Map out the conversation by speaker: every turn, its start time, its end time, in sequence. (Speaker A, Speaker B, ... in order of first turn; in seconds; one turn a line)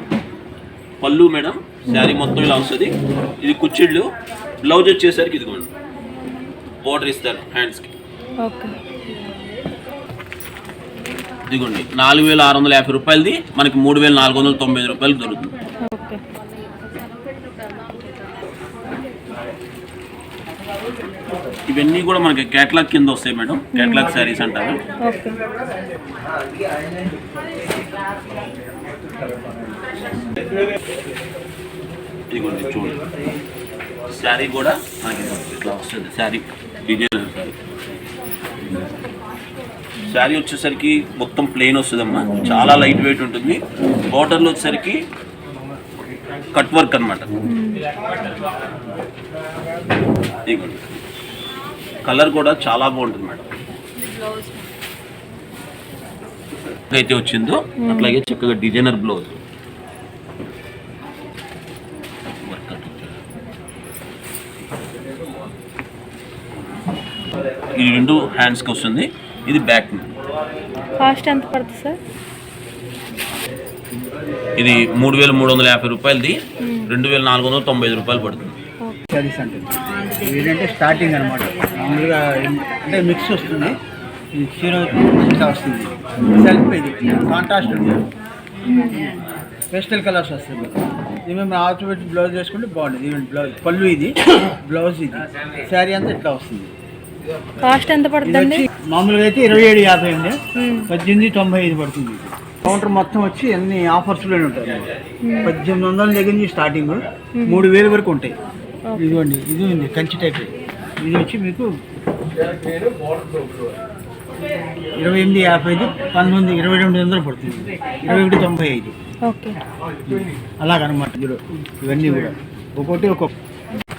Speaker A: 1.0-4.1
Speaker A: 4.6-5.7
Speaker A: 6.8-7.9
Speaker B: 8.4-8.7
Speaker A: 11.5-15.5
Speaker B: 15.9-16.2
Speaker A: 21.7-24.8
Speaker B: 23.8-24.1
Speaker B: 25.0-25.4
Speaker A: 32.3-33.0
Speaker A: 34.1-37.6
Speaker A: 40.0-45.0
Speaker B: 42.4-42.7
Speaker A: 46.5-47.3
Speaker B: 47.5-47.8
Speaker A: 50.5-51.0
Speaker A: 52.1-53.5
Speaker A: 56.9-59.4
Speaker B: 57.8-58.2
Speaker A: 62.4-63.2
Speaker A: 67.8-70.1
Speaker B: 71.0-72.0
Speaker A: 74.6-78.5
Speaker B: 76.6-76.9
Speaker C: 79.1-83.8
Speaker C: 84.3-88.0
Speaker B: 88.7-89.0
Speaker C: 89.7-96.7
Speaker B: 97.6-98.7
Speaker C: 98.2-100.4
Speaker B: 100.6-100.9
Speaker C: 100.9-104.9
Speaker B: 105.2-105.5
Speaker C: 105.4-108.3
Speaker B: 107.3-107.7
Speaker B: 108.9-109.2
Speaker C: 109.0-111.7
Speaker C: 115.0-118.9
Speaker B: 119.3-119.5
Speaker C: 120.1-123.3